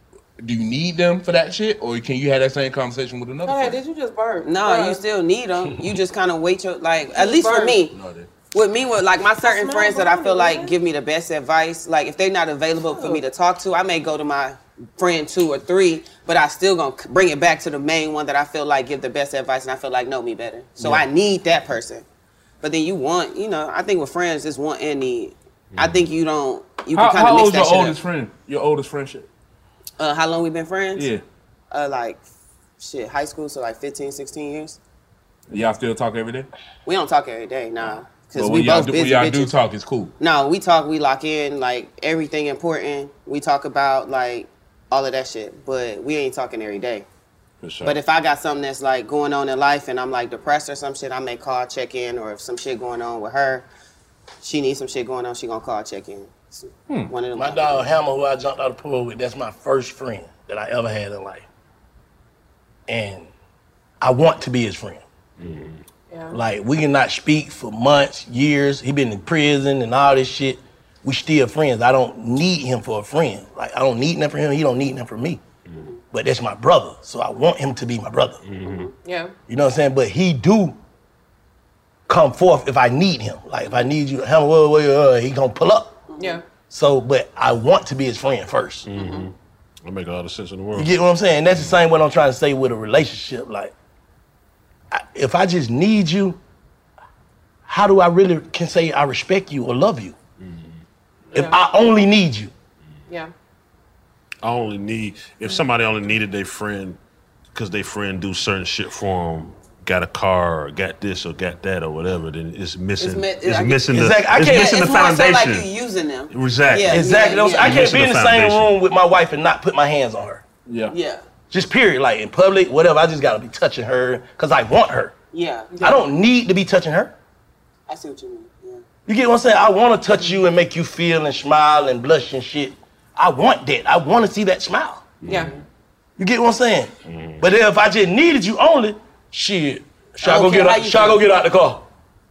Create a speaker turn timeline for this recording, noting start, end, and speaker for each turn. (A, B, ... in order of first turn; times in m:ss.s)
0:00.4-0:03.8 A
0:03.4-0:05.0 B
0:04.4-0:08.0 C
0:07.1-0:07.8 B
0:07.9-0:08.3 A
0:08.5-0:22.0 C
0:09.4-0:10.8 B
0:12.9-0:13.2 B
0:22.6-0:28.0 C
0:25.7-0:26.0 D
0:26.9-0:29.3 A
0:30.0-0:31.1 C
0:31.0-0:31.2 A
0:31.7-0:32.2 C
0:32.8-0:34.8 C
0:35.5-0:36.5 A
0:36.9-0:39.5 C
0:38.4-0:40.1 A
0:40.2-0:47.1 C
0:47.6-0:48.0 D
0:47.8-0:53.7 C
0:54.4-0:57.9 C
0:57.4-1:01.5 E
1:02.9-1:03.3 E
1:04.0-1:05.0 E
1:05.4-1:05.8 D
1:06.1-1:06.4 B
1:06.3-1:15.4 E
1:16.1-1:18.4 E
1:18.4-1:18.9 D
1:19.0-1:19.3 B
1:19.5-1:20.8 E
1:22.1-1:26.0 E
1:26.1-1:26.4 C
1:26.2-1:26.4 B
1:26.7-1:28.9 E
1:28.9-1:30.9 D
1:29.0-1:29.3 B
1:30.8-1:33.7 E
1:31.5-1:31.8 D
1:34.9-1:36.4 E
1:37.7-1:40.2 E
1:40.4-1:40.8 D
1:41.3-1:41.6 B
1:41.3-1:42.5 E
1:44.4-1:47.0 D
1:47.5-1:55.7 D
1:53.0-1:57.8 C
1:53.9-1:54.8 E
1:56.3-1:58.7 D
1:56.9-2:00.4 E
2:00.7-2:00.9 A
2:00.9-2:01.2 C
2:01.5-2:05.1 E
2:05.3-2:05.8 C
2:05.7-2:06.0 B
2:05.8-2:07.1 E
2:07.9-2:08.8 C
2:09.1-2:15.1 E
2:15.2-2:15.5 D
2:15.3-2:15.5 B
2:16.2-2:21.8 E
2:17.1-2:17.4 D
2:20.2-2:21.2 C